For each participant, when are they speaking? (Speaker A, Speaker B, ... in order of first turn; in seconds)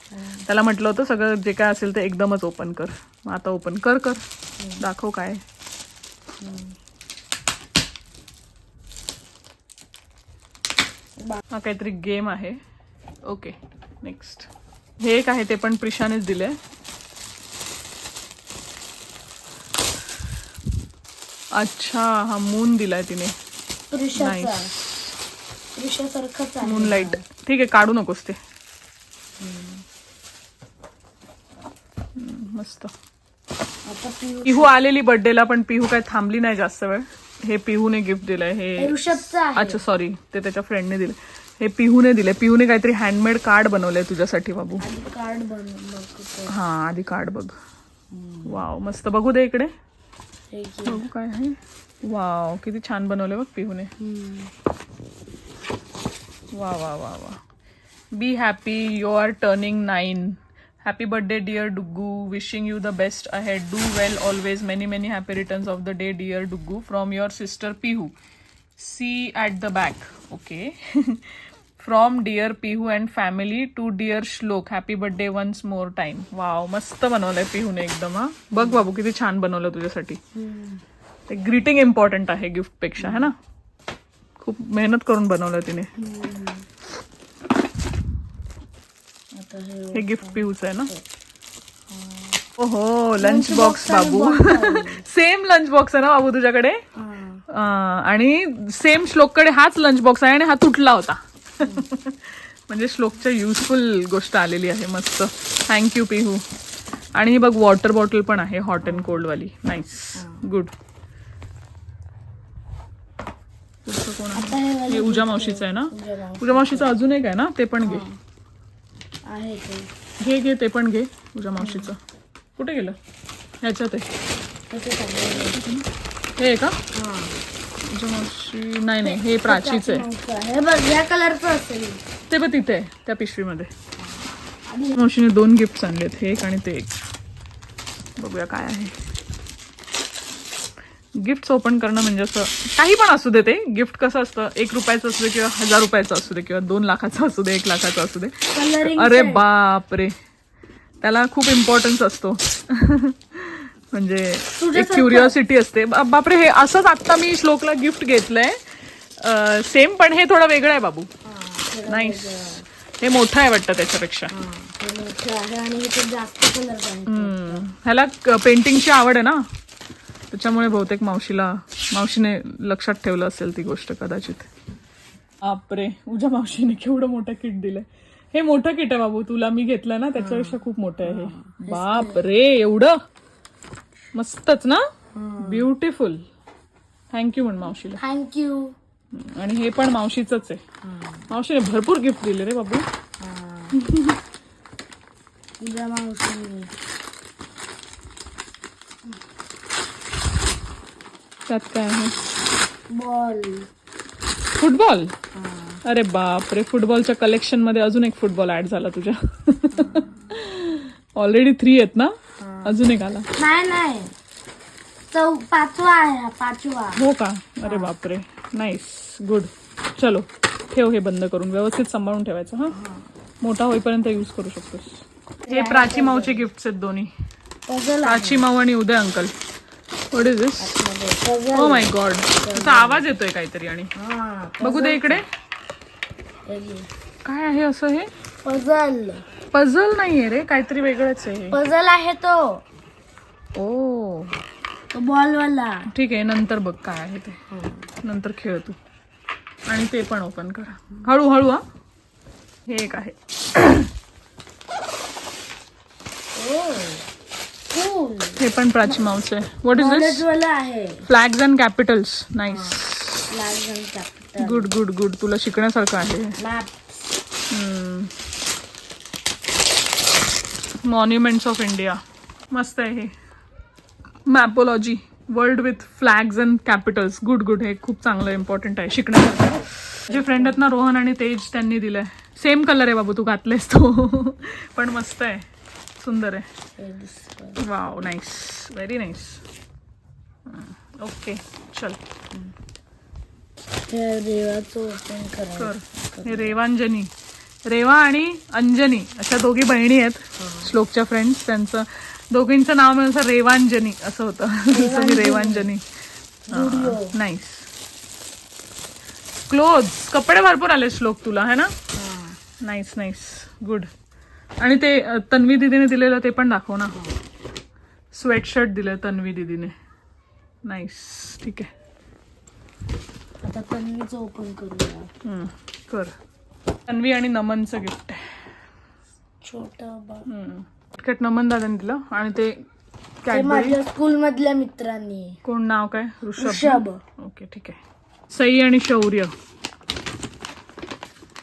Speaker A: 0.1-0.5, 4.6-4.8, 6.4-6.8, 23.9-24.7, 25.8-27.2, 29.4-29.8, 33.9-34.7, 38.8-39.8, 44.8-46.6, 48.1-48.6, 50.5-51.0, 54.0-54.5, 78.5-78.8, 80.3-80.8, 83.0-83.3, 86.0-86.7, 89.3-91.0, 91.9-92.4, 93.2-95.0, 97.0-97.4, 101.6-101.9, 108.8-109.2, 110.2-110.5, 114.3-117.0, 117.8-118.2, 119.3-119.9, 121.6-121.9, 124.7-125.6, 126.9-127.4, 129.0-132.0, 134.0-135.0, 148.5-149.4, 154.5-155.3, 161.2-162.7, 164.3-167.6, 180.2-182.3, 185.2-185.7, 188.0-188.8, 190.8-191.3, 193.2-193.8, 195.6-196.7, 202.9-203.7, 205.3-205.8, 209.7-210.3, 212.4-212.8, 213.3-214.1, 215.1-217.0, 217.6-217.9, 222.7-223.1, 225.4-226.5, 227.7-228.5, 230.6-233.1, 234.0-235.2, 236.5-236.9, 238.4-239.3, 241.5-242.6, 244.9-245.9, 247.5-247.9, 256.4-257.1, 257.7-259.1, 259.8-261.1, 262.5-264.7, 266.4-267.2, 280.1-280.6, 286.8-287.6, 293.9-296.6, 300.4-300.7, 304.7-305.7, 306.5-307.1, 311.9-312.4, 323.4-325.1, 329.4-330.3, 333.3-335.4, 336.4-337.0
Speaker B: 0.5-4.2, 4.8-5.4, 11.5-12.6, 13.2-14.5, 15.0-16.6, 21.6-23.3, 24.2-24.9, 26.6-28.4, 32.2-32.9, 34.5-44.9, 46.5-47.5, 48.5-49.7, 50.9-53.9, 56.5-57.4, 58.1-68.1, 68.8-80.2, 81.3-83.3, 84.4-85.9, 89.9-90.9, 92.6-96.8, 97.5-106.4, 107.1-110.7, 113.8-118.1, 120.2-122.0, 122.6-123.0, 123.6-124.1, 125.4-125.8, 126.4-126.8, 127.9-130.1, 132.3-133.7, 134.9-137.1, 138.2-138.9, 141.2-150.1, 151.0-161.1, 161.9-164.3, 167.1-169.4, 170.3-174.5, 175.4-183.0, 184.1-184.8, 185.4-186.2, 187.1-188.0, 189.1-190.6, 191.3-192.8, 193.8-194.2, 201.5-202.2, 204.6-205.1, 205.8-213.3, 217.0-222.7, 223.4-227.1, 228.0-229.3, 230.1-230.8, 231.5-233.9, 234.6-235.2, 237.2-238.1, 239.5-241.6, 243.6-244.4, 245.9-247.4, 248.0-248.8, 249.7-251.6, 252.7-253.9, 258.4-260.2, 261.1-263.3, 264.4-266.4, 267.5-268.1, 270.8-272.0, 272.5-273.1, 274.3-285.5, 286.0-286.5, 287.6-289.4, 290.5-292.0, 295.6-297.1, 297.7-305.8, 306.5-307.7, 309.5-311.7, 312.6-313.9, 314.6-317.0, 318.1-319.7, 320.6-321.7, 325.2-326.1, 326.9-328.3, 330.3-332.6, 333.2-333.8, 335.4-337.8, 338.3-339.3